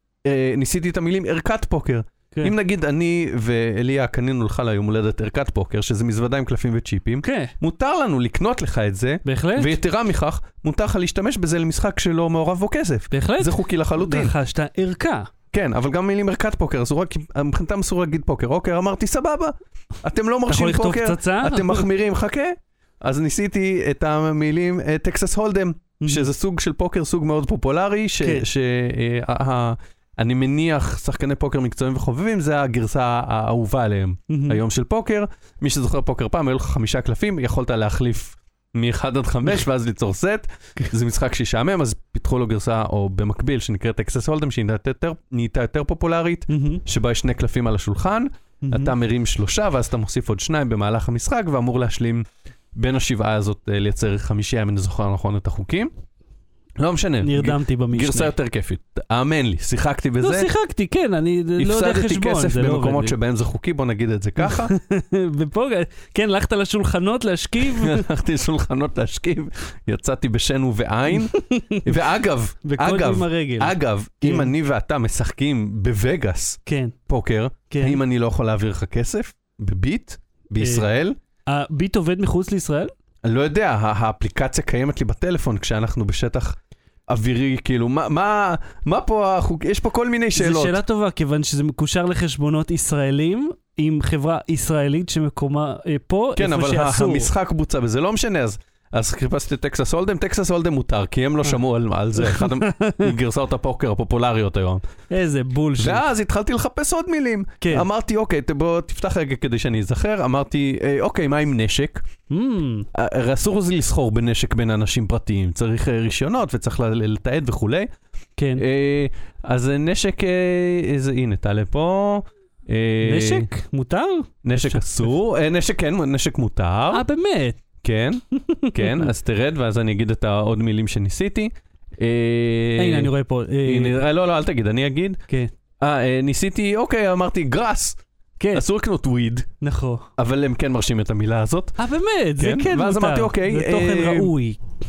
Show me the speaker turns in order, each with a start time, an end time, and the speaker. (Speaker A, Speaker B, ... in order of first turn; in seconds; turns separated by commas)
Speaker A: 0.2-14.3, Speaker B: 7.2-7.5, Speaker B: 9.2-9.8, Speaker B: 13.1-15.3, Speaker A: 15.5-55.9, Speaker B: 20.5-21.9, Speaker B: 26.0-26.3, Speaker B: 28.2-28.5, Speaker B: 34.3-34.6, Speaker B: 46.5-46.8, Speaker B: 48.6-48.9, Speaker A: 56.8-60.5, Speaker B: 57.2-58.3, Speaker B: 60.2-63.2, Speaker A: 61.6-64.7, Speaker B: 64.4-68.0, Speaker A: 67.6-81.2, Speaker B: 71.1-72.0, Speaker B: 72.6-74.5, Speaker B: 76.7-77.0, Speaker B: 77.7-78.0, Speaker B: 80.6-80.8, Speaker B: 81.5-82.9, Speaker A: 83.2-86.6, Speaker A: 87.1-90.8, Speaker B: 90.4-97.3, Speaker A: 96.4-104.8, Speaker B: 102.2-103.1, Speaker B: 105.1-106.0, Speaker A: 105.8-112.0, Speaker B: 107.6-107.9, Speaker B: 112.3-112.9, Speaker A: 112.9-117.9, Speaker B: 118.4-118.6, Speaker A: 118.6-123.5, Speaker B: 123.0-125.0, Speaker A: 124.5-127.0, Speaker B: 126.9-127.6, Speaker A: 127.8-133.1, Speaker B: 128.4-129.1, Speaker B: 132.8-134.0, Speaker A: 133.7-135.2, Speaker A: 135.8-138.0, Speaker B: 138.4-138.7, Speaker A: 138.5-139.5, Speaker B: 139.6-140.1, Speaker A: 140.2-141.8, Speaker B: 141.8-144.6, Speaker A: 142.4-144.3